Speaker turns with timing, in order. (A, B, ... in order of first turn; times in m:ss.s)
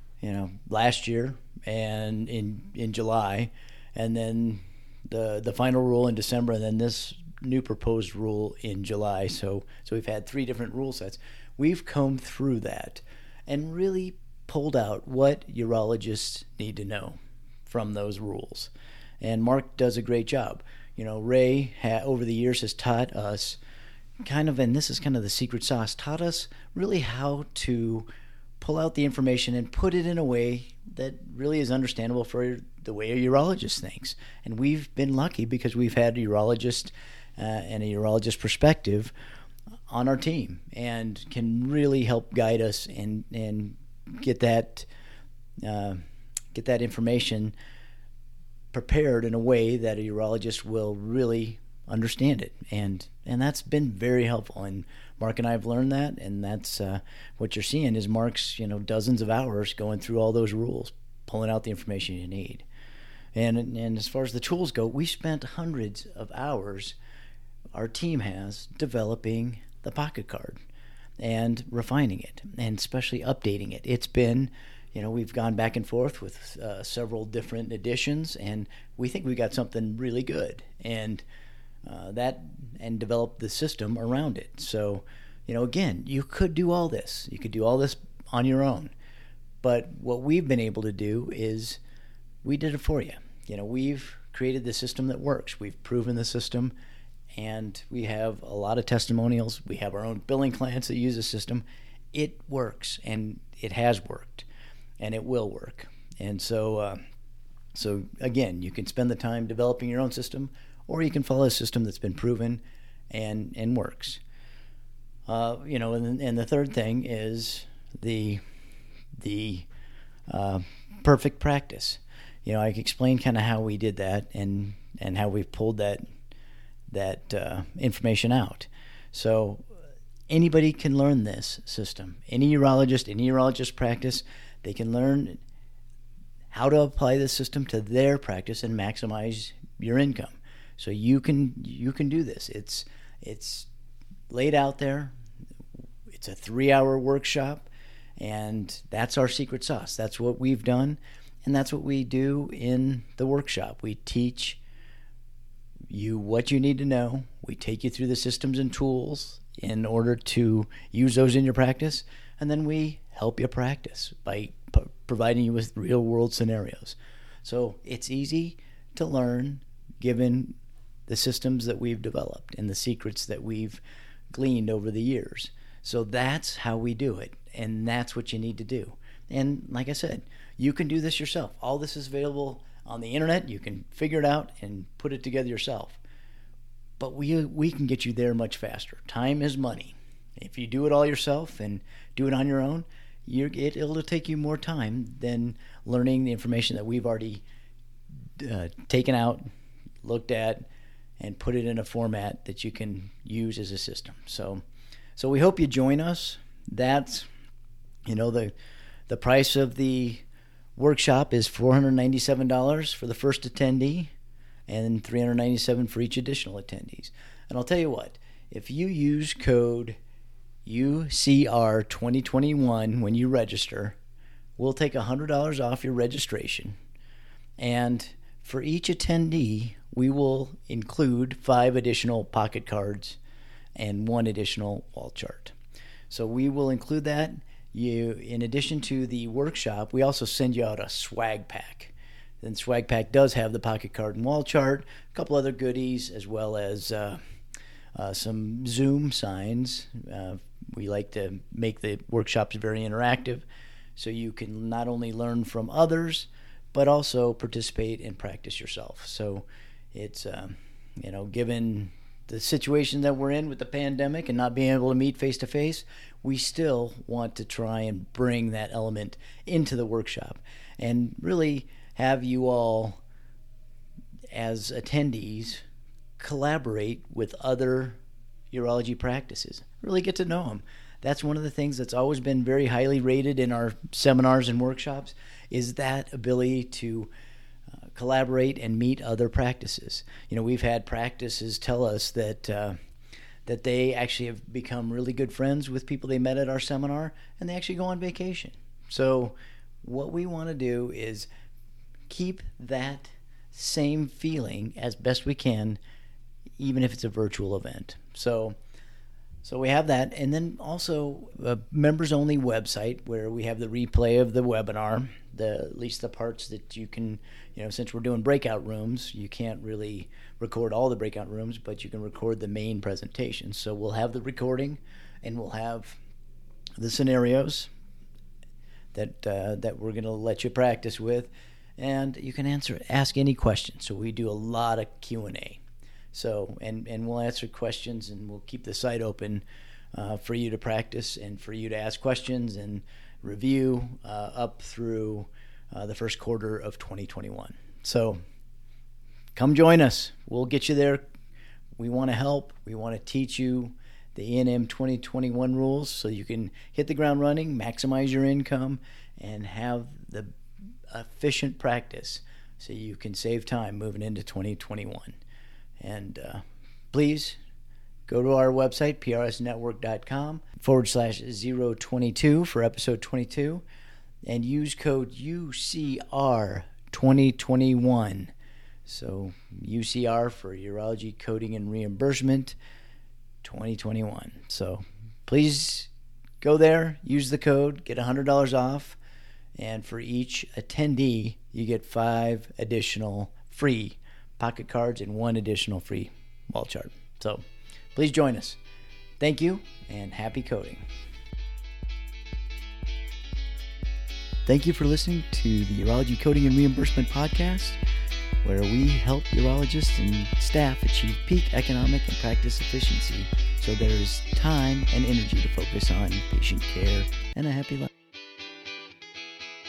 0:00.2-0:23.6 A
0:24.2-0:28.1 A
0:28.6-0:39.1 A
0:39.9-0:44.9 A
0:45.6-0:46.0 A
0:46.5-0:47.6 A
0:48.7-1:02.7 A
1:03.4-1:07.0 A
1:07.7-1:10.6 A
1:11.2-1:21.2 A
1:21.9-1:28.9 A
1:29.6-1:31.8 A
1:32.4-1:36.7 A
1:37.4-1:44.5 A
1:45.0-1:47.0 A
1:47.7-1:54.2 A
1:55.3-1:58.4 A
1:59.2-1:59.7 A
2:00.3-2:06.0 A
2:06.9-2:09.6 A
2:10.3-2:15.4 A
2:16.5-2:23.7 A
2:24.3-2:25.1 A
2:26.1-2:34.6 A
2:35.9-2:50.6 A
2:51.1-3:06.0 A
3:07.0-3:17.4 A
3:18.4-3:19.4 A
3:20.0-3:20.7 A
3:21.2-3:24.6 A
3:25.2-3:27.3 A
3:28.1-3:28.5 A
3:29.1-3:30.2 A
3:30.8-3:34.1 A
3:34.7-3:40.0 A
3:40.6-3:44.0 A
3:44.6-3:46.8 A
3:47.6-3:53.2 A
3:53.8-3:55.6 A
3:56.1-4:07.2 A
4:08.0-4:13.4 A
4:14.0-4:33.0 A
4:34.3-4:35.6 A
4:36.2-4:38.0 A
4:38.5-4:47.1 A
4:47.9-4:52.8 A
4:53.5-5:01.3 A
5:02.1-5:05.8 A
5:06.6-5:08.6 A
5:09.4-5:26.0 A
5:26.8-5:27.7 A
5:28.9-5:35.6 A
5:36.1-5:48.2 A
5:49.4-5:51.0 A
5:51.8-6:00.3 A
6:00.9-6:05.2 A
6:05.8-6:07.4 A
6:08.1-6:13.6 A
6:14.3-6:18.3 A
6:18.9-6:22.6 A
6:23.4-6:25.9 A
6:26.4-6:29.0 A
6:29.6-6:38.6 A
6:39.2-6:40.8 A
6:44.5-6:47.8 A
6:48.4-6:57.9 A